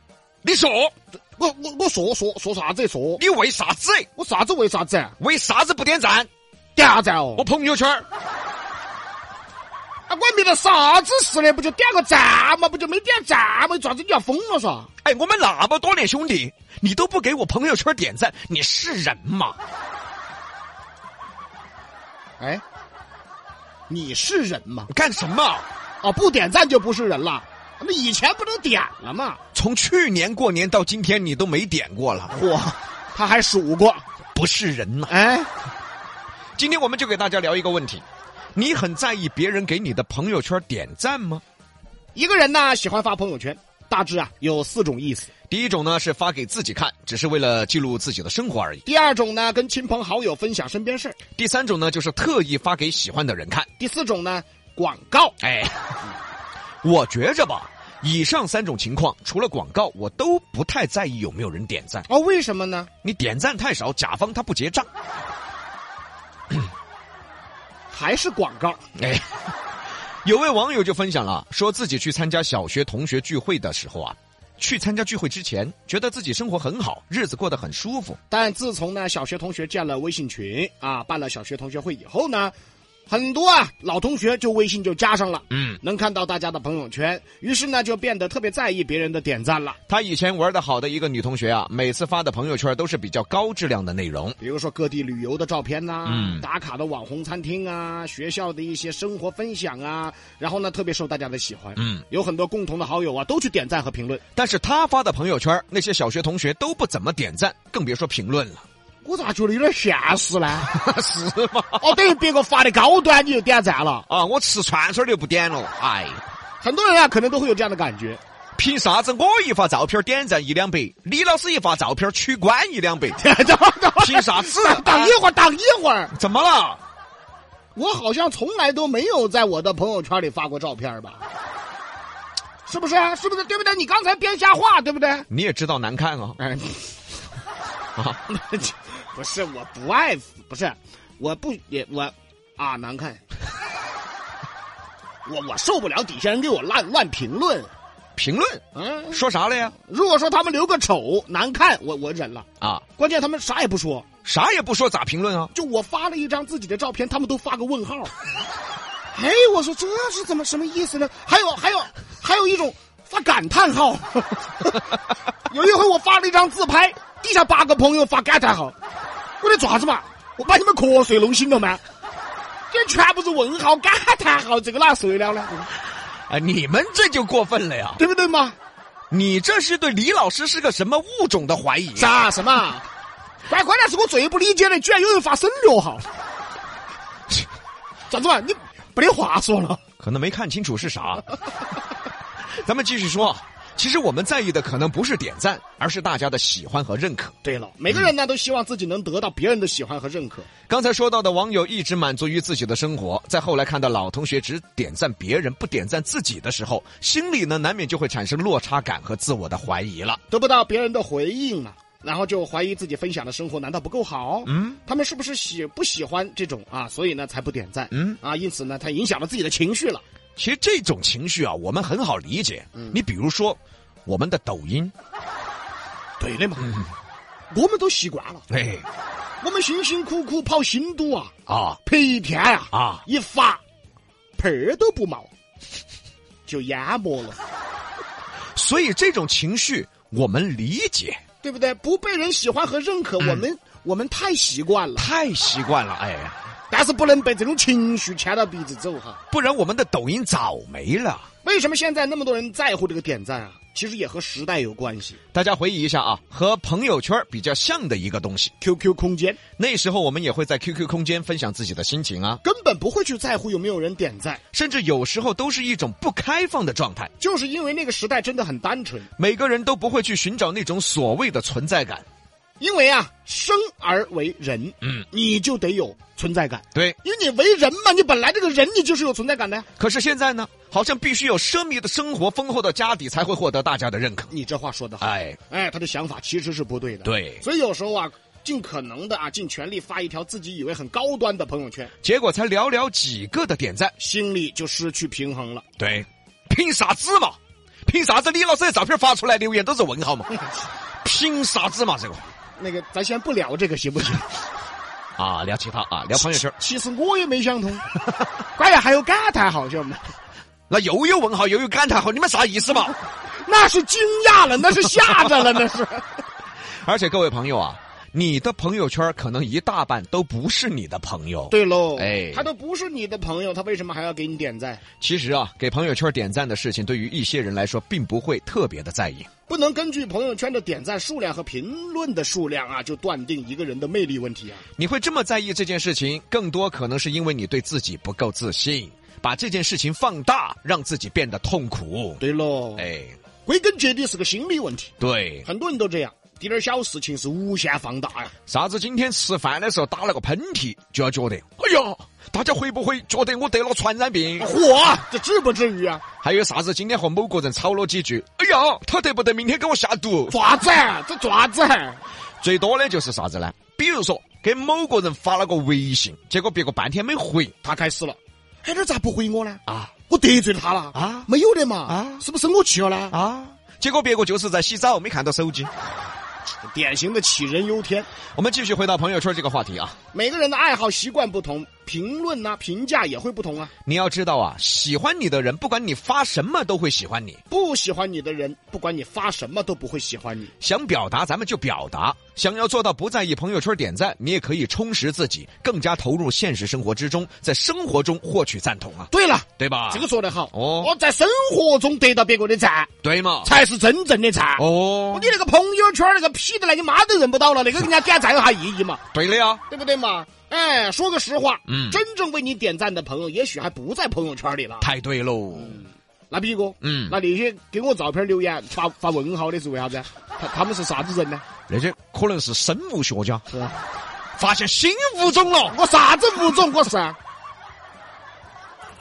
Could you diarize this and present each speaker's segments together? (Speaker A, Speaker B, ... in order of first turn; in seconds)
Speaker A: 0.4-0.9, 3.2-4.1, 5.2-6.3, 7.4-8.1, 15.0-19.6, 24.9-25.7, 29.5-32.4, 34.4-35.1, 36.6-38.0, 38.5-41.4, 45.5-48.8, 51.4-53.7, 55.4-56.0, 56.8-62.1, 63.0-64.9, 69.0-69.4, 70.2-78.2, 85.5-85.8, 89.9-94.4, 96.0-96.5, 101.8-102.0, 104.4-108.6, 110.6-112.0, 114.1-116.2, 118.6-123.2, 124.0-125.2, 126.1-126.8, 135.3-136.4, 148.2-149.8, 154.2-155.5, 176.3-178.0, 179.1-182.1, 190.0-191.3, 192.6-197.3, 200.7-210.2, 214.5-214.8, 217.9-218.2, 220.4-224.9, 228.5-228.9, 231.5-231.8, 232.7-233.0, 238.6-241.2, 245.0-246.4, 249.3-251.3, 255.3-258.5, 259.6-262.4, 264.5-267.1, 269.2-272.1, 279.8-284.3, 285.0-285.4, 287.1-287.4, 292.0-293.9, 295.8-300.3, 301.0-302.2, 305.2-306.6, 310.7-312.9, 316.8-322.5, 325.0-329.3, 334.8-342.2, 342.8-343.2, 345.0-345.5, 348.5-354.5, 356.2-360.4, 362.4-367.6, 370.9-371.3, 371.9-372.2, 373.1-375.7, 378.4-380.0, 383.9-387.4, 390.6-400.9, 403.0-403.5, 404.6-405.3, 409.1-409.6, 411.7-412.0, 414.8-415.9, 416.8-417.2, 421.7-423.5, 424.4-425.8
Speaker B: 1.4-3.2, 4.2-5.2, 6.8-7.5, 10.1-14.9, 23.9-24.9, 26.0-29.4, 32.3-34.0, 35.1-35.5, 42.1-45.3, 48.9-51.2, 53.8-55.4, 62.1-62.9, 67.9-68.8, 78.3-82.5, 83.1-89.8, 94.4-104.2, 109.0-110.7, 111.8-114.1, 116.6-118.2, 123.2-126.1, 127.8-131.2, 132.7-135.3, 136.4-137.0, 138.3-143.2, 145.2-147.7, 148.7-149.2, 149.8-152.5, 153.0-154.1, 155.5-158.1, 159.1-164.9, 165.5-168.8, 169.4-171.8, 172.7-175.7, 178.0-178.6, 182.0-182.8, 183.5-186.1, 188.1-189.8, 197.4-200.5, 210.3-220.0, 226.2-226.8, 227.5-228.4, 229.4-231.3, 231.8-233.6, 234.4-235.3, 236.5-237.4, 241.4-245.1, 246.7-249.2, 251.4-255.2, 258.6-259.4, 262.4-264.4, 267.2-269.1, 272.6-279.7, 284.3-291.9, 294.0-295.6, 302.6-304.4, 306.1-307.9, 308.6-310.1, 313.4-316.2, 321.5-324.8, 329.5-334.6, 342.2-342.9, 343.5-344.9, 345.4-348.3, 354.4-356.0, 360.3-362.0, 367.6-373.1, 376.7-378.1, 380.1-383.7, 387.5-390.5, 399.1-402.9, 403.4-409.0, 409.7-414.9, 416.3-421.4, 423.5-423.8, 425.7-427.2